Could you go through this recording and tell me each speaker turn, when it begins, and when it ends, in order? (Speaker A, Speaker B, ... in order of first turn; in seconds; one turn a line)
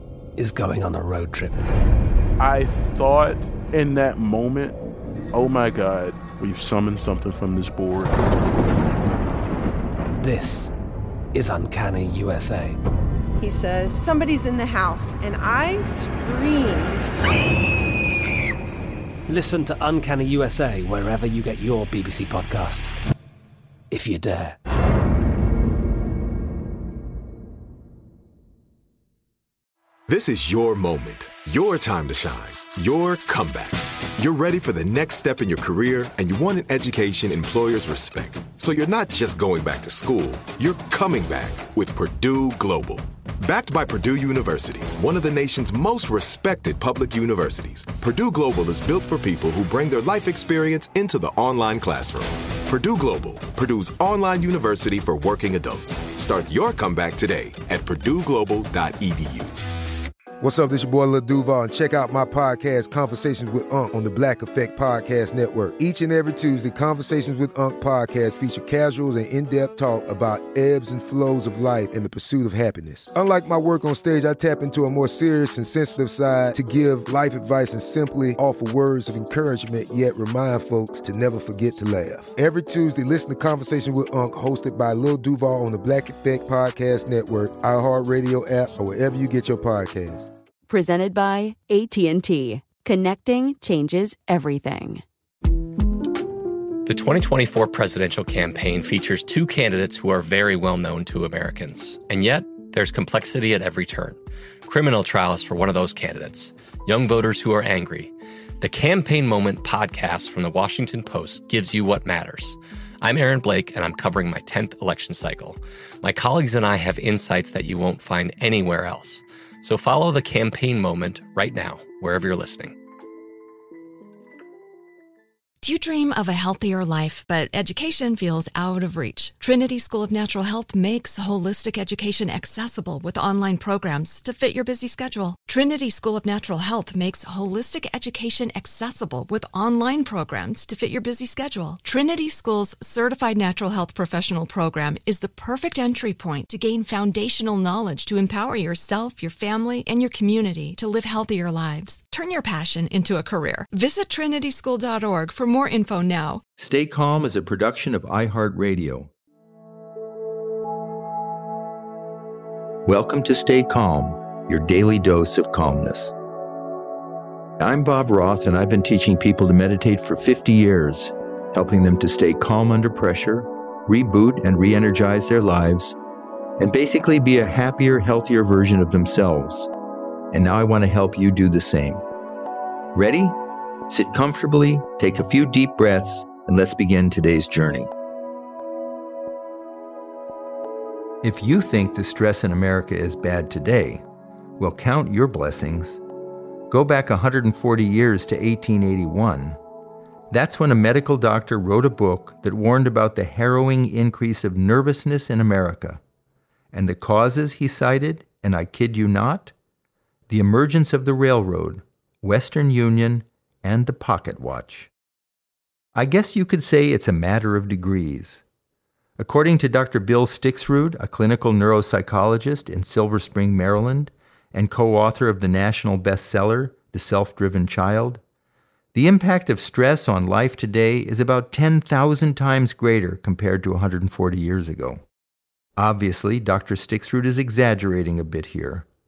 Speaker A: 0.4-1.6
Speaker B: 2.4-4.7
Speaker B: 5.3-8.1
Speaker A: 10.2-10.7
Speaker A: 11.3-12.8
Speaker C: 13.4-17.1
Speaker A: 19.3-23.0
Speaker A: 23.9-24.6
Speaker D: 30.1-59.5
Speaker E: 60.4-90.3
Speaker F: 90.7-95.0
Speaker G: 96.9-122.8
Speaker H: 125.6-156.4
Speaker I: 156.6-159.1
Speaker I: 162.9-166.1
Speaker I: 167.6-176.0
Speaker I: 176.6-179.7
Speaker I: 180.3-182.0
Speaker I: 182.9-187.9
Speaker I: 191.2-194.0
Speaker I: 194.6-196.0
Speaker I: 196.7-199.6
Speaker I: 200.3-206.0
Speaker I: 206.7-209.5
Speaker I: 210.3-214.9
Speaker I: 216.0-218.4
Speaker I: 219.2-228.2
Speaker I: 228.9-235.0
Speaker I: 235.8-238.9